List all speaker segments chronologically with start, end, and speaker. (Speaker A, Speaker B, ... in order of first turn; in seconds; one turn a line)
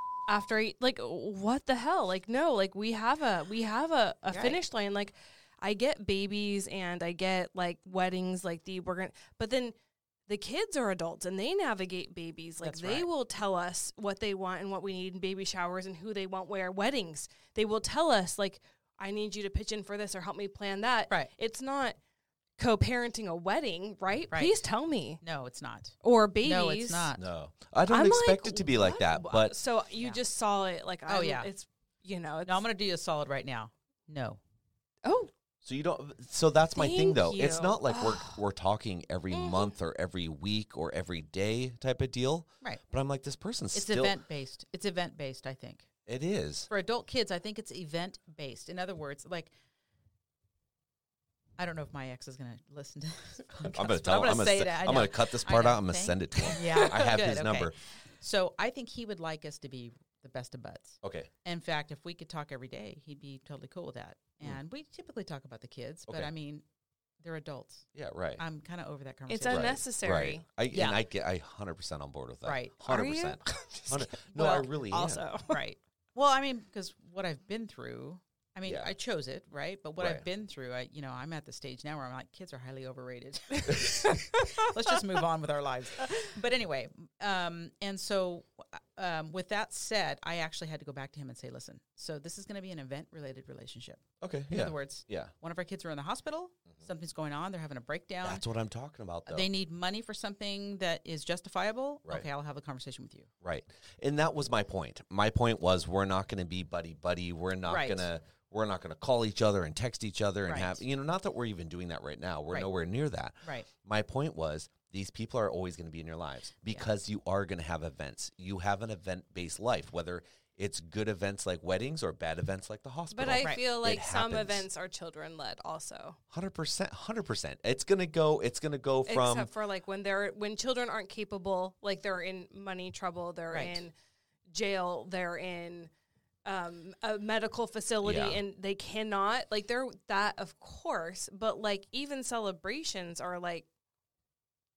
Speaker A: 0.3-9.7
Speaker B: 4.3-4.6
Speaker A: 10.3-22.0
Speaker B: 12.6-13.1
Speaker A: 22.6-25.2
Speaker B: 24.3-24.6
Speaker B: 25.2-27.2
Speaker A: 26.0-27.1
Speaker C: 27.2-29.6
Speaker A: 27.9-32.6
Speaker B: 31.1-31.5
Speaker B: 32.5-34.4
Speaker A: 35.0-35.3
Speaker C: 35.6-44.1
Speaker A: 36.7-38.4
Speaker A: 39.3-39.7
Speaker B: 43.7-45.9
Speaker C: 46.0-46.7
Speaker B: 46.7-49.5
Speaker B: 51.6-66.6
Speaker C: 53.6-57.7
Speaker C: 61.0-61.3
Speaker B: 67.2-69.8
Speaker C: 68.0-68.4
Speaker A: 69.3-70.4
Speaker C: 69.5-75.3
Speaker B: 70.7-71.0
Speaker B: 72.4-73.0
Speaker A: 72.8-75.6
Speaker B: 74.3-98.5
Speaker C: 78.7-78.9
Speaker C: 80.0-80.3
Speaker A: 83.6-84.8
Speaker C: 94.2-95.3
Speaker C: 98.2-99.5
Speaker B: 99.3-103.3
Speaker C: 103.4-124.7
Speaker B: 107.7-108.1
Speaker B: 110.5-110.8
Speaker B: 113.4-113.7
Speaker A: 123.1-126.2
Speaker C: 126.3-129.5
Speaker A: 129.1-133.9
Speaker B: 133.5-133.8
Speaker A: 134.5-135.9
Speaker A: 136.4-143.7
Speaker C: 138.0-138.4